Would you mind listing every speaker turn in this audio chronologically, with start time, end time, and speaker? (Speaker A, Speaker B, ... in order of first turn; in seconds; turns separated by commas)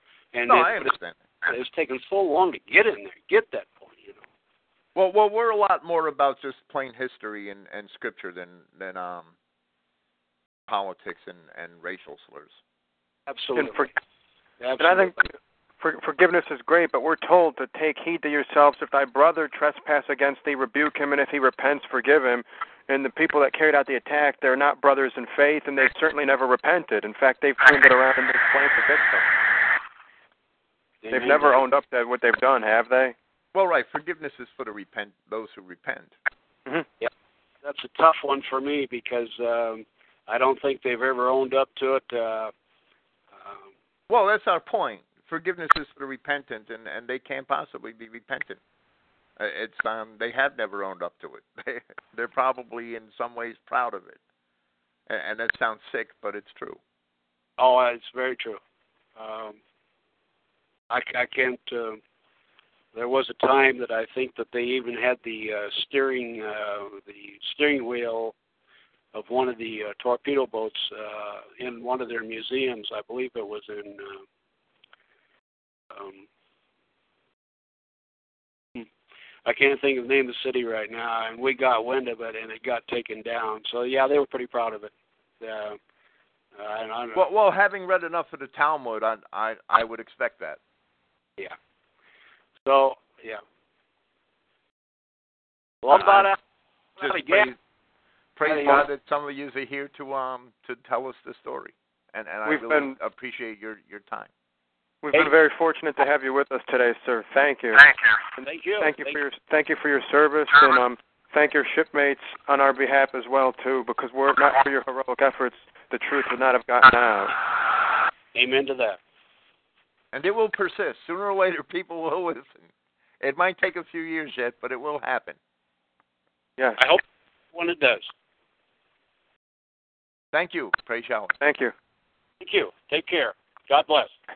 Speaker A: 0.3-4.2, Speaker B: 0.5-1.2, Speaker B: 5.0-9.3, Speaker B: 10.7-12.6, Speaker A: 13.3-13.9, Speaker C: 13.6-13.9, Speaker A: 14.6-15.3, Speaker C: 14.8-15.1, Speaker C: 15.8-29.3, Speaker A: 31.0-31.6, Speaker C: 31.1-33.1, Speaker B: 33.5-36.1, Speaker A: 37.6-42.5, Speaker A: 43.4-43.7, Speaker B: 44.1-48.6, Speaker B: 49.4-54.2, Speaker B: 55.1-56.8, Speaker A: 57.6-58.6, Speaker A: 59.2-59.6, Speaker A: 60.9-62.0, Speaker A: 62.9-68.3, Speaker A: 69.1-74.2, Speaker A: 75.9-76.2, Speaker A: 79.5-85.8, Speaker A: 86.6-87.2, Speaker B: 87.2-90.6, Speaker A: 92.7-93.4, Speaker A: 95.8-96.4, Speaker B: 95.9-96.3, Speaker A: 97.0-97.5, Speaker B: 97.0-97.6, Speaker B: 98.4-104.3, Speaker A: 98.5-98.9, Speaker C: 102.5-102.9, Speaker C: 105.0-107.9, Speaker A: 108.4-109.2, Speaker C: 108.8-117.3, Speaker A: 118.3-119.0, Speaker B: 120.1-122.7, Speaker B: 123.2-125.4, Speaker A: 126.8-127.0, Speaker A: 127.5-128.1, Speaker B: 130.3-131.3, Speaker C: 131.4-131.7, Speaker A: 132.4-134.2